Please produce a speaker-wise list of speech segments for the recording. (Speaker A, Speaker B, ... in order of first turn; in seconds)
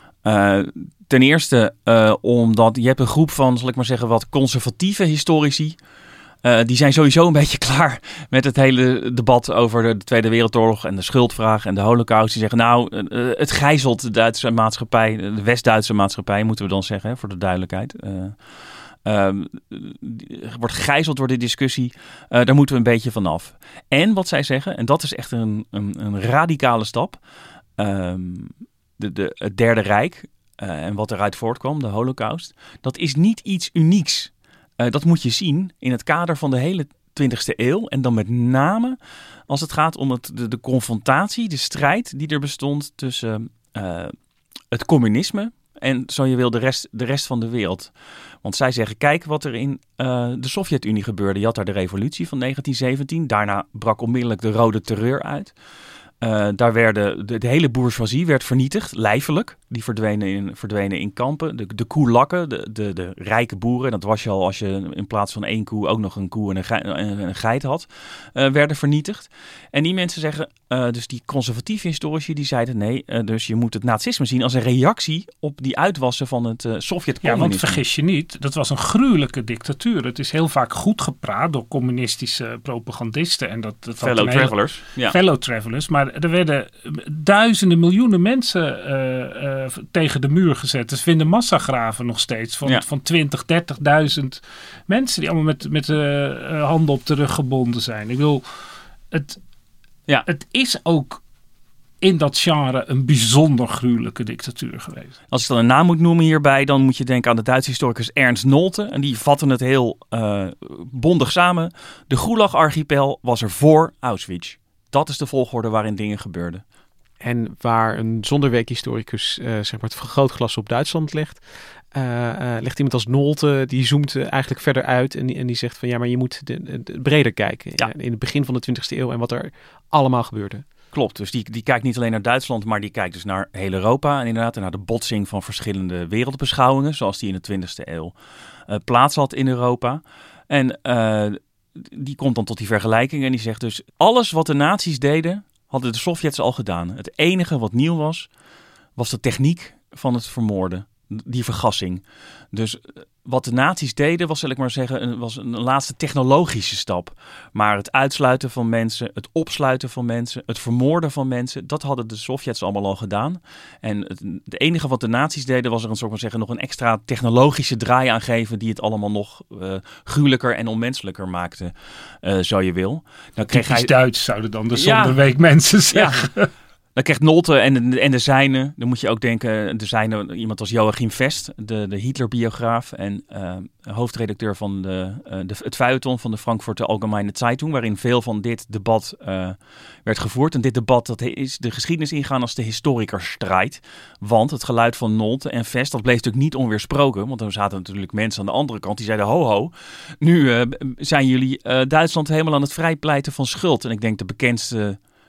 Speaker A: 0.2-5.8, 6.4-18.3, 19.0-27.2, 27.8-39.0, 39.5-44.1, 44.7-47.9, 48.4-55.5, 56.2-77.8, 84.0-85.2, 105.3-116.6, 130.9-138.1, 138.7-148.3, 148.9-173.9, 174.7-175.2, 175.9-176.2, 176.9-205.0
Speaker B: 77.2-98.4, 99.1-99.4, 100.2-101.2, 102.0-105.1, 173.5-176.5
Speaker C: 117.2-121.4, 121.9-130.6